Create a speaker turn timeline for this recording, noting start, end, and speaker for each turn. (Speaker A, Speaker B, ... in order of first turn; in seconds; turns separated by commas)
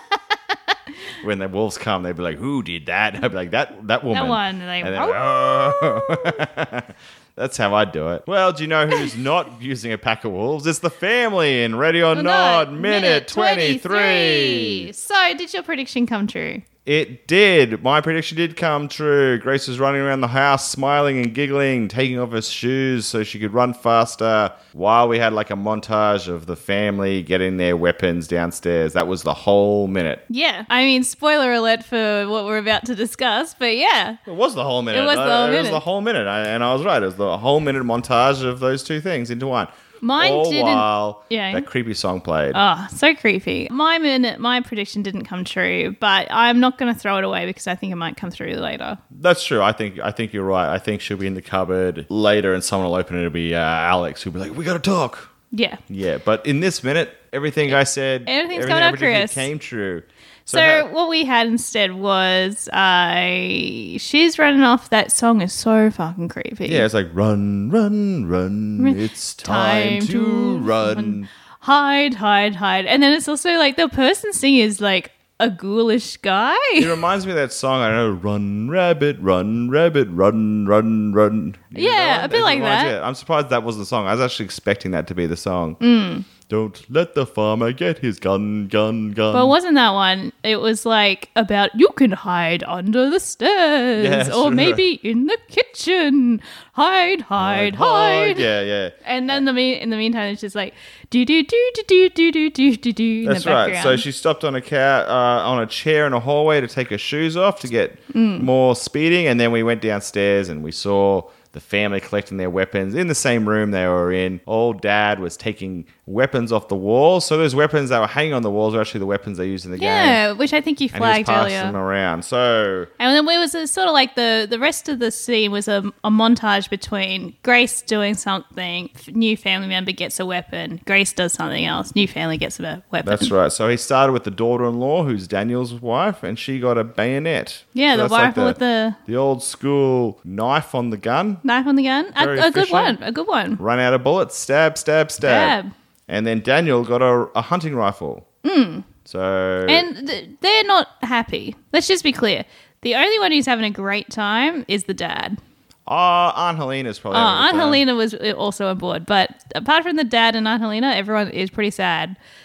Speaker A: 1.2-14.9, Speaker B: 4.1-6.4, Speaker B: 12.1-16.6, Speaker A: 16.9-30.2, Speaker B: 30.3-34.2, Speaker A: 34.3-42.6, Speaker B: 34.9-35.8, Speaker B: 40.0-41.7, Speaker B: 42.5-49.0, Speaker A: 49.1-55.3, Speaker B: 55.5-55.8, Speaker A: 55.9-60.9, Speaker B: 57.7-59.5, Speaker B: 60.5-66.9, Speaker A: 66.7-71.3, Speaker B: 68.8-76.9, Speaker A: 76.8-85.8, Speaker B: 81.7-83.0, Speaker B: 85.8-86.3, Speaker A: 86.5-89.5, Speaker B: 89.3-98.5, Speaker A: 94.0-94.8, Speaker A: 97.4-99.4, Speaker B: 99.0-104.0, Speaker A: 103.2-120.2, Speaker B: 108.1-108.5, Speaker B: 119.8-121.8, Speaker A: 120.9-122.9, Speaker B: 123.0-133.3, Speaker A: 133.0-141.4, Speaker B: 137.8-139.0, Speaker B: 141.4-143.6, Speaker A: 142.2-143.0, Speaker A: 143.6-148.2, Speaker B: 145.2-145.7, Speaker B: 148.4-148.9, Speaker A: 149.1-149.9, Speaker B: 149.7-155.4, Speaker A: 155.9-157.8, Speaker B: 157.1-162.2